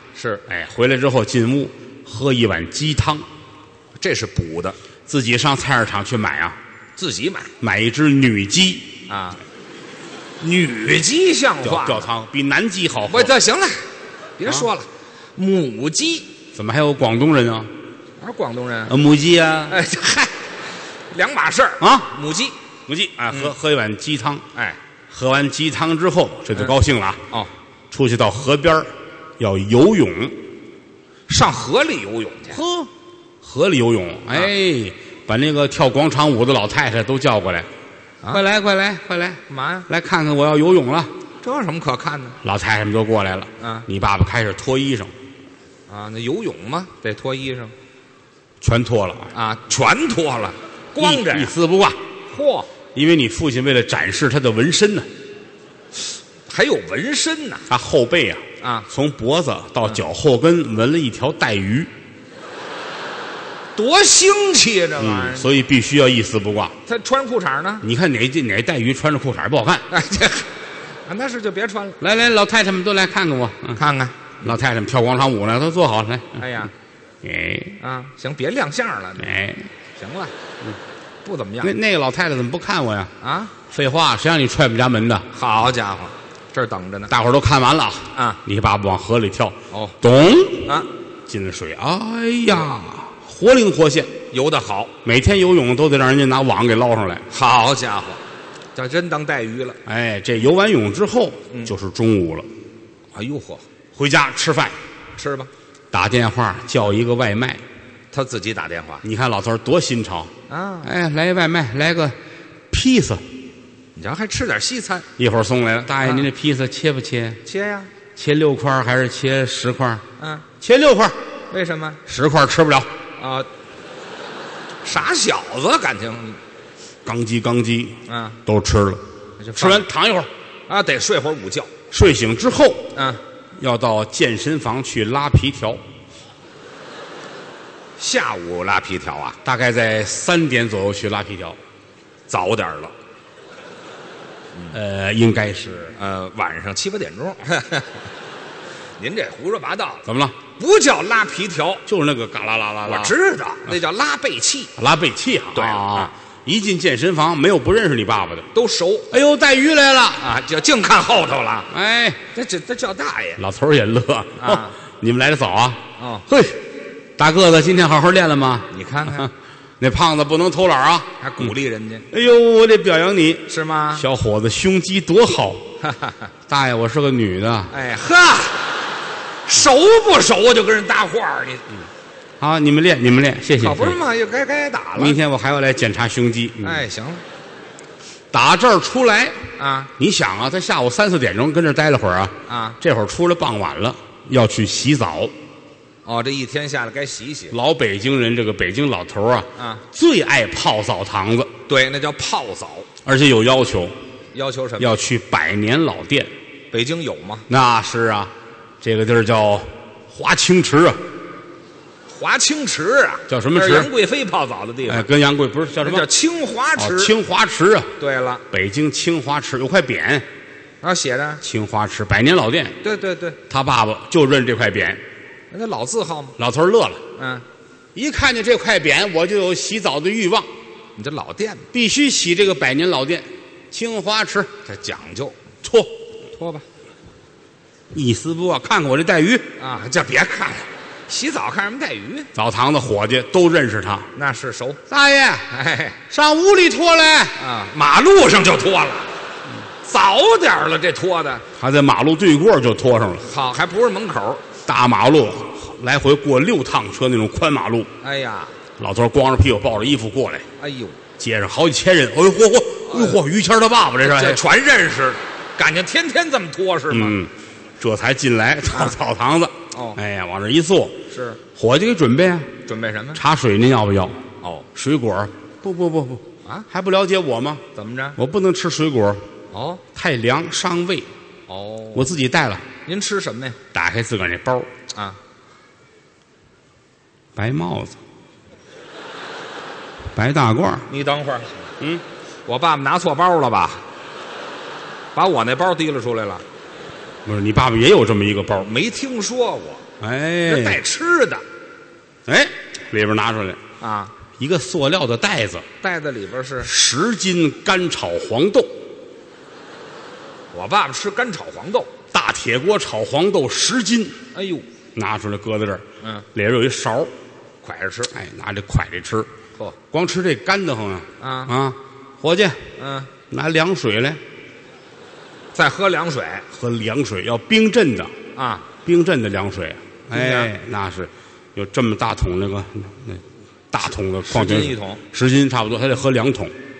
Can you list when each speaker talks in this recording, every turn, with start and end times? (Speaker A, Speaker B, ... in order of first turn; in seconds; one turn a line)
Speaker A: 0.1-0.4
Speaker B: 0.5-3.3
Speaker A: 4.0-4.8
Speaker B: 5.1-6.6
Speaker A: 7.0-7.5
Speaker B: 7.6-8.9
Speaker A: 9.1-9.4
Speaker A: 10.4-12.1
Speaker B: 11.6-13.3
Speaker A: 13.1-13.8
Speaker A: 14.4-16.3
Speaker B: 16.5-17.7
Speaker A: 18.2-18.9
Speaker B: 18.9-19.8
Speaker A: 19.7-20.5
Speaker A: 21.1-22.6
Speaker B: 21.8-22.1
Speaker B: 22.9-24.4
Speaker B: 25.1-27.2
Speaker B: 27.9-30.4
Speaker A: 31.3-32.6
Speaker B: 32.5-32.9
Speaker B: 33.4-37.7
Speaker B: 38.3-41.1
Speaker A: 39.5-39.9
Speaker A: 41.4-42.4
Speaker B: 42.4-45.1
Speaker A: 43.6-43.9
Speaker A: 45.9-47.7
Speaker B: 48.6-49.3
Speaker A: 49.3-51.5
Speaker B: 51.0-52.0
Speaker A: 52.3-52.7
Speaker B: 53.0-55.1
Speaker A: 56.5-57.7
Speaker B: 57.7-61.9
Speaker A: 58.6-58.9
Speaker A: 63.8-65.5
Speaker B: 65.0-66.8
Speaker A: 66.9-67.9
Speaker B: 67.8-69.9
Speaker A: 69.9-70.5
Speaker A: 71.1-72.0
Speaker B: 72.0-73.8
Speaker A: 73.7-74.3
Speaker B: 74.4-76.6
Speaker A: 76.4-76.7
Speaker B: 77.2-77.8
Speaker A: 77.8-79.3
Speaker B: 79.2-79.7
Speaker A: 80.0-80.3
Speaker A: 81.2-81.8
Speaker B: 81.6-83.1
Speaker A: 83.2-83.5
Speaker B: 83.7-85.2
Speaker A: 85.3-87.1
Speaker B: 87.1-90.7
Speaker A: 88.2-88.4
Speaker A: 89.7-90.0
Speaker B: 91.3-94.1
Speaker A: 94.3-94.9
Speaker B: 95.0-97.2
Speaker A: 97.3-98.2
Speaker A: 98.8-99.8
Speaker B: 99.9-102.5
Speaker A: 103.2-103.6
Speaker B: 104.0-104.8
Speaker A: 105.2-105.5
Speaker B: 105.9-107.6
Speaker A: 108.1-109.1
Speaker B: 109.0-110.3
Speaker A: 110.5-110.9
Speaker B: 110.8-112.2
Speaker B: 112.7-113.3
Speaker A: 114.0-115.1
Speaker B: 115.2-117.4
Speaker A: 116.0-116.3
Speaker A: 117.5-117.9
Speaker B: 118.2-120.0
Speaker A: 120.2-120.5
Speaker B: 120.6-121.2
Speaker A: 121.5-122.0
Speaker B: 122.1-122.9
Speaker A: 123.2-123.5
Speaker A: 124.8-126.4
Speaker B: 127.0-129.0
Speaker A: 128.1-128.4
Speaker A: 129.4-129.9
Speaker B: 129.6-130.3
Speaker A: 130.7-131.7
Speaker B: 131.9-132.9
Speaker A: 132.9-133.2
Speaker B: 133.6-135.8
Speaker A: 138.0-139.4
Speaker B: 139.4-141.6
Speaker A: 142.3-142.9
Speaker B: 144.7-145.9
Speaker A: 146.0-148.0
Speaker A: 149.0-150.1
Speaker B: 150.1-150.4
Speaker A: 150.6-151.8
Speaker B: 151.9-153.2
Speaker A: 152.8-154.7
Speaker B: 154.8-158.5
Speaker A: 155.5-156.1
Speaker A: 158.5-159.1
Speaker B: 159.1-160.3
Speaker A: 160.2-161.7
Speaker B: 161.7-162.2
Speaker A: 162.3-163.4
Speaker B: 163.4-171.5
Speaker A: 164.4-164.8
Speaker A: 166.0-166.3
Speaker A: 168.7-169.3
Speaker A: 171.2-172.1
Speaker B: 172.1-175.7
Speaker A: 173.5-174.1
Speaker A: 175.8-176.3
Speaker B: 176.5-177.7
Speaker A: 177.7-178.7
Speaker A: 179.5-181.6
Speaker B: 182.4-184.0
Speaker A: 183.6-185.2
Speaker B: 185.0-186.9
Speaker A: 186.6-187.2
Speaker B: 188.3-189.4
Speaker A: 189.6-189.9
Speaker B: 190.0-195.3
Speaker A: 192.5-192.8
Speaker A: 196.1-197.6
Speaker B: 197.5-201.5
Speaker A: 199.6-199.8
Speaker A: 201.7-202.9
Speaker B: 203.1-204.0
Speaker A: 204.3-205.0
Speaker B: 204.8-206.3
Speaker A: 206.7-207.5
Speaker B: 207.5-211.0
Speaker A: 212.1-215.1
Speaker B: 213.3-213.9
Speaker B: 214.9-216.1
Speaker A: 215.8-217.1
Speaker B: 216.8-217.9
Speaker A: 218.0-218.4
Speaker B: 218.5-220.3
Speaker A: 220.8-221.4
Speaker B: 221.4-222.8
Speaker A: 222.8-223.4
Speaker B: 223.5-225.0
Speaker A: 225.5-226.4
Speaker B: 226.4-227.0
Speaker A: 227.2-227.4
Speaker B: 227.9-230.5
Speaker A: 231.0-231.7
Speaker B: 231.7-234.5
Speaker A: 234.7-235.4
Speaker B: 235.6-235.9
Speaker A: 236.4-236.7
Speaker B: 237.9-239.4
Speaker A: 239.6-242.3
Speaker B: 242.3-244.1
Speaker A: 244.2-244.8
Speaker B: 244.9-245.5
Speaker A: 245.5-246.0
Speaker B: 246.1-247.3
Speaker A: 247.4-249.1
Speaker A: 249.8-251.4
Speaker B: 251.6-253.3
Speaker A: 253.2-254.4
Speaker B: 254.7-257.9
Speaker A: 258.0-258.6
Speaker B: 258.8-260.5
Speaker A: 260.6-261.0
Speaker B: 261.2-264.4
Speaker A: 262.9-263.2
Speaker A: 264.0-267.2
Speaker B: 266.9-271.0
Speaker A: 268.7-269.0
Speaker A: 269.7-270.0
Speaker A: 271.1-271.4
Speaker B: 271.6-272.5
Speaker A: 272.7-273.2
Speaker B: 273.1-274.2
Speaker B: 274.7-277.6
Speaker A: 277.8-278.2
Speaker B: 278.2-279.2
Speaker A: 279.5-279.8
Speaker B: 279.9-281.1
Speaker A: 281.5-282.1
Speaker B: 281.9-282.7
Speaker A: 282.9-283.6
Speaker B: 283.7-284.7
Speaker B: 287.4-288.0
Speaker B: 290.1-290.9
Speaker A: 290.9-291.5
Speaker A: 292.5-293.8
Speaker A: 295.1-296.4
Speaker B: 297.2-298.7
Speaker A: 298.6-299.8
Speaker B: 300.0-300.8
Speaker A: 300.5-301.4
Speaker B: 302.3-303.6
Speaker A: 303.8-304.1
Speaker B: 304.4-305.7
Speaker A: 305.8-306.7
Speaker B: 306.6-308.7
Speaker A: 310.5-311.9
Speaker B: 312.1-314.2
Speaker A: 314.3-314.7
Speaker B: 314.9-317.1
Speaker A: 317.6-318.1
Speaker B: 318.1-319.3
Speaker B: 319.9-322.6
Speaker A: 321.2-321.5
Speaker A: 322.8-323.1
Speaker B: 323.3-324.2
Speaker A: 325.6-326.5
Speaker B: 326.5-328.1
Speaker A: 328.4-328.7
Speaker B: 328.8-336.5
Speaker A: 330.1-330.5
Speaker A: 334.3-335.0